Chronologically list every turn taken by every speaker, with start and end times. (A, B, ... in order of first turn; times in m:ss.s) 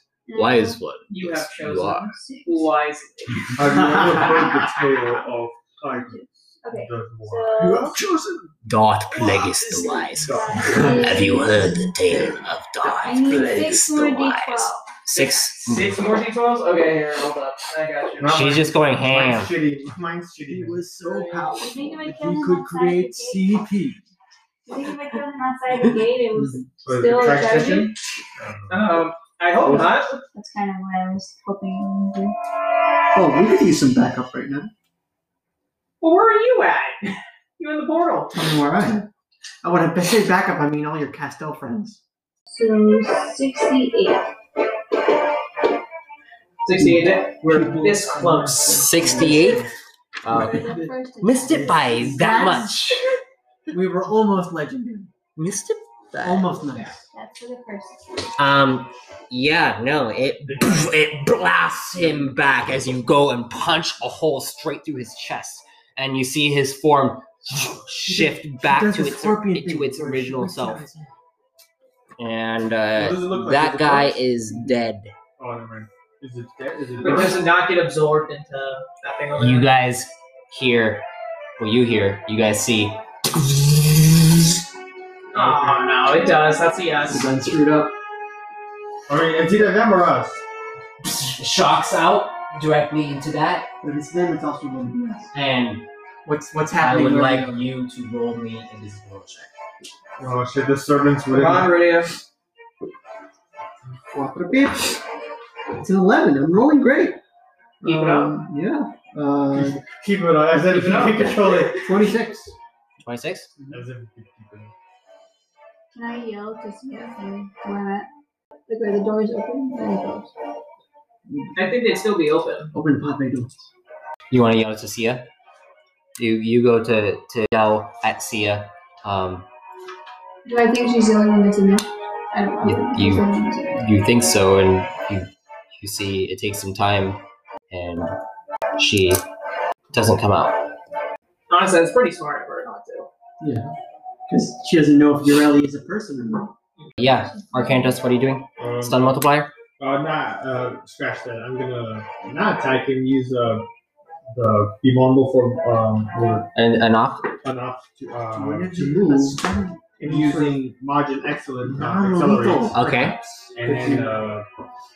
0:00.3-0:00.8 A
0:00.4-0:02.1 B
0:01.1-0:04.0 C
0:02.1-0:02.7 A
0:03.6-0:08.0 D
0:03.8-0:04.3 E
0:04.2-0:04.7 A
0:05.8-0:08.0 A
0:07.6-0:08.5 E
0:08.6-0:16.1 B
0:09.2-0:11.3 D
0:09.7-0:11.9 A
0:13.0-0:14.8 A
0:15.1-0:18.4 C
0:18.2-0:20.8 D
0:18.3-0:19.5 B
0:20.5-0:24.0 E
0:21.0-0:21.5 C
0:21.5-0:23.5 A
0:24.7-0:28.0 A
0:26.4-0:26.6 E
0:26.8-0:28.9 D
0:28.7-0:30.2 C
0:29.6-0:30.0 D
0:30.3-0:32.4 A
0:33.1-0:34.7 E
0:36.0-0:38.5 C
0:38.3-0:39.1 E
0:39.6-0:42.0 E
0:42.5-0:44.3 A
0:46.6-0:49.0 C
0:46.8-0:49.7 E
0:48.8-0:49.7 B
0:50.2-0:53.0 B
0:50.3-0:50.9 E
0:50.3-0:52.8 A
0:51.5-0:52.6 E
0:53.7-0:55.1 E
0:55.4-0:56.6 B
0:56.2-0:57.0 E
0:57.1-0:58.1 A
0:58.4-1:10.8 B
1:00.5-1:00.8 D
1:08.1-1:11.1 E
1:12.2-1:15.1 B
1:13.0-1:14.2 D
1:15.4-1:17.4 D
1:17.0-1:19.7 C
1:19.4-1:21.1 B
1:21.6-1:24.3 B
1:25.3-1:27.3 C
1:25.3-1:25.9 D
1:27.1-1:28.0 E
1:29.1-1:30.4 D
1:31.0-1:33.7 B
1:33.8-1:35.3 E
1:35.3-1:35.9 B
1:36.2-1:37.6 E
1:36.8-1:39.5 B
1:40.2-1:41.8 D
1:41.3-1:42.2 C
1:44.1-1:45.0 E
1:45.8-1:47.2 E
1:47.8-1:49.9 E
1:47.8-1:48.4 C
1:49.5-1:52.0 D
1:50.7-1:52.1 C
1:51.8-1:52.5 E
1:53.0-1:53.5 B
1:53.6-1:53.8 E
1:53.7-1:54.7 D
1:55.9-1:58.1 A
1:58.7-2:00.3 A
2:01.3-2:01.6 E
2:01.6-2:02.7 C
2:02.7-2:03.7 E
2:04.3-2:05.3 B
2:06.2-2:09.5 B
2:10.5-2:13.8 A
2:12.6-2:18.2 B
2:18.8-2:19.2 B
2:19.9-2:20.7 B
2:21.5-2:23.1 C
2:23.4-2:23.7 E
2:24.3-2:26.5 E
2:27.0-2:29.5 B
2:27.1-2:28.0 A
2:28.6-2:29.2 D
2:29.8-2:33.7 D
2:34.3-2:36.5 D
2:36.6-2:37.3 B
2:37.4-2:39.4 D
2:38.3-2:40.6 E
2:40.0-2:42.9 D
2:41.6-2:44.2 E
2:42.7-2:43.2 B
2:43.5-2:44.5 D